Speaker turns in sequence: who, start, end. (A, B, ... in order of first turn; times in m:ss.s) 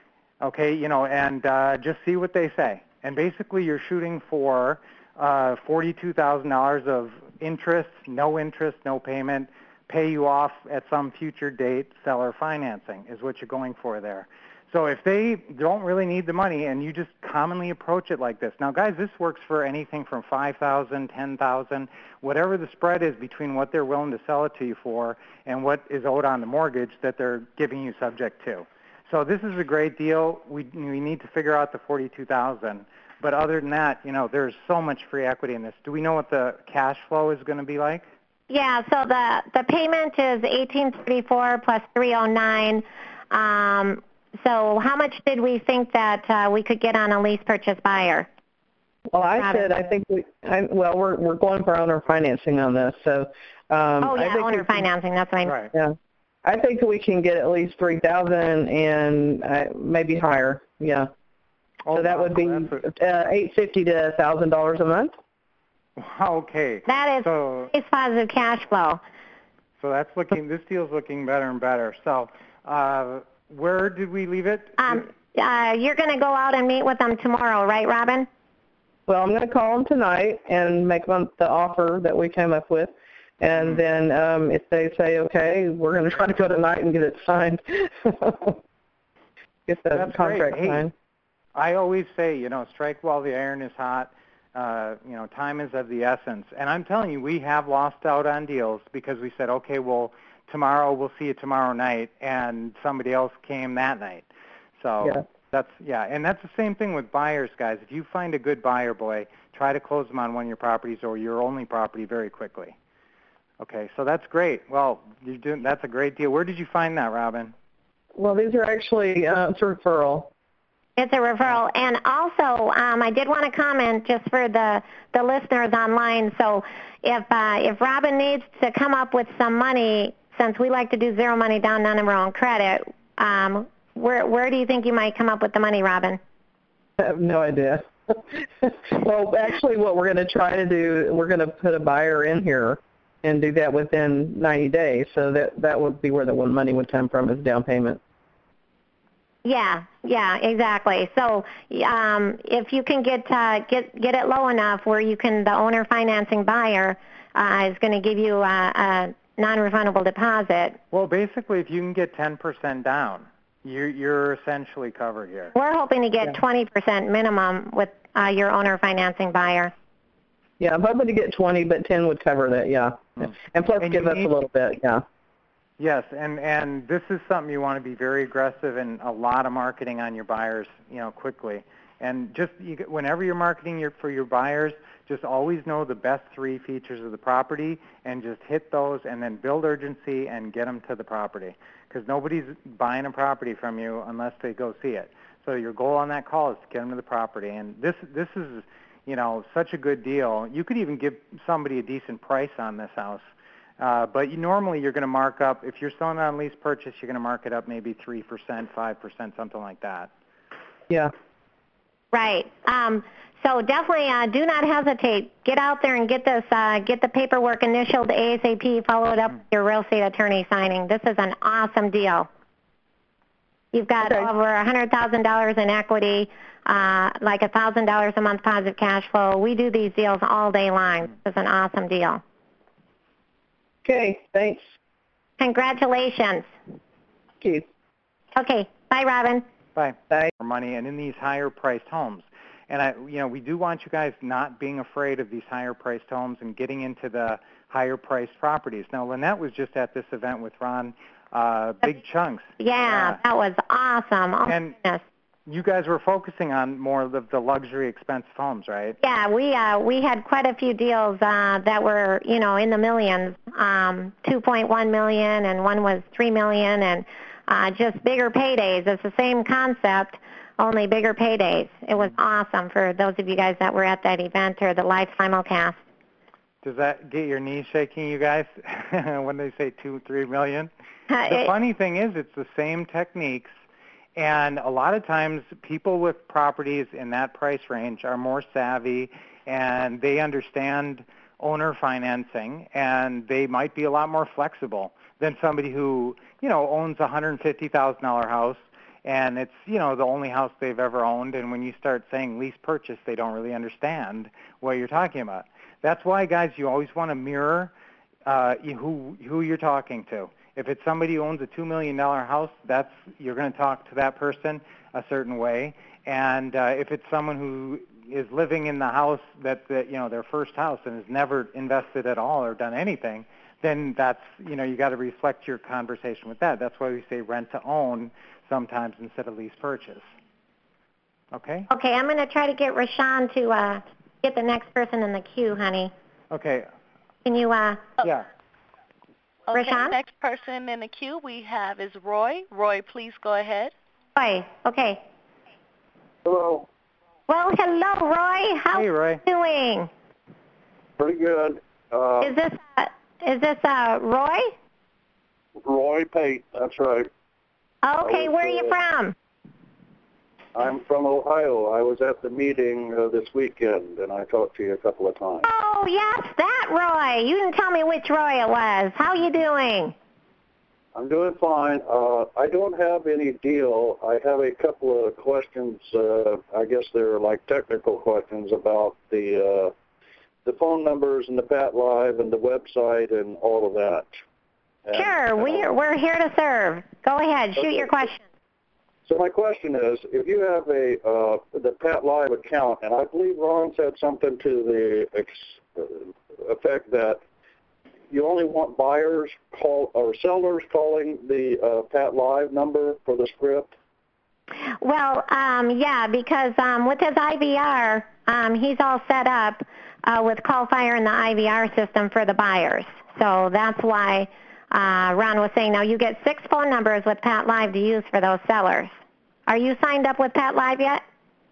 0:00.4-0:38.1 A
0:38.5-0:48.3 B
0:49.1-0:54.9 C
0:49.4-0:49.7 B
0:54.0-0:55.5 B
0:55.5-0:55.7 A
0:55.7-1:01.1 C
1:01.9-1:02.8 A
1:01.9-1:05.1 C
1:06.0-1:07.7 A
1:06.9-1:09.0 B
1:09.8-1:15.1 A
1:14.8-1:18.3 B
1:19.1-1:28.6 C
1:23.6-1:23.8 A
1:29.7-1:30.9 C
1:29.9-1:30.9 A
1:31.6-1:44.3 A
1:44.8-1:52.8 A
1:53.6-1:57.5 A
1:58.2-2:00.3 C
2:01.0-2:16.2 B
2:17.0-2:28.0 C
2:29.4-2:40.8 B
2:40.9-2:45.6 A
2:45.6-2:49.7 B
2:50.6-2:55.0 C
2:53.2-2:54.3 A
2:55.8-3:23.2 A
3:23.8-3:30.1 A
3:32.1-3:42.3 B
3:43.7-3:52.2 B
3:44.0-3:44.3 C
3:53.8-3:54.6 C
3:55.4-3:56.5 B
3:58.4-3:59.4 B
3:59.8-4:13.2 A
4:12.6-4:15.0 B
4:14.5-4:14.8 A
4:15.5-4:19.0 A
4:19.0-4:35.8 B
4:36.6-4:40.7 A
4:41.1-4:41.5 B
4:41.3-4:43.6 A
4:44.2-5:07.7 A
5:08.3-5:30.0 A
5:31.3-5:31.7 A
5:31.7-5:35.9 B
5:36.3-5:36.7 A
5:37.2-5:37.9 B
5:39.5-5:43.7 D
5:39.5-5:40.0 B
5:44.2-5:45.0 B
5:46.2-5:46.7 E
5:47.3-5:49.9 B
5:48.7-5:49.2 A
5:51.0-5:52.4 E
5:52.2-5:54.5 B
5:55.6-5:57.1 E
5:57.8-5:59.1 B
5:58.0-5:58.8 E
6:00.6-6:05.5 E
6:05.4-6:10.0 B
6:11.0-6:19.7 E
6:20.4-6:24.1 E
6:24.9-6:25.7 E
6:24.9-6:28.2 B
6:27.6-6:27.9 E
6:29.1-6:37.2 E
6:38.1-6:43.7 E
6:44.8-6:58.9 B
6:59.5-7:01.0 B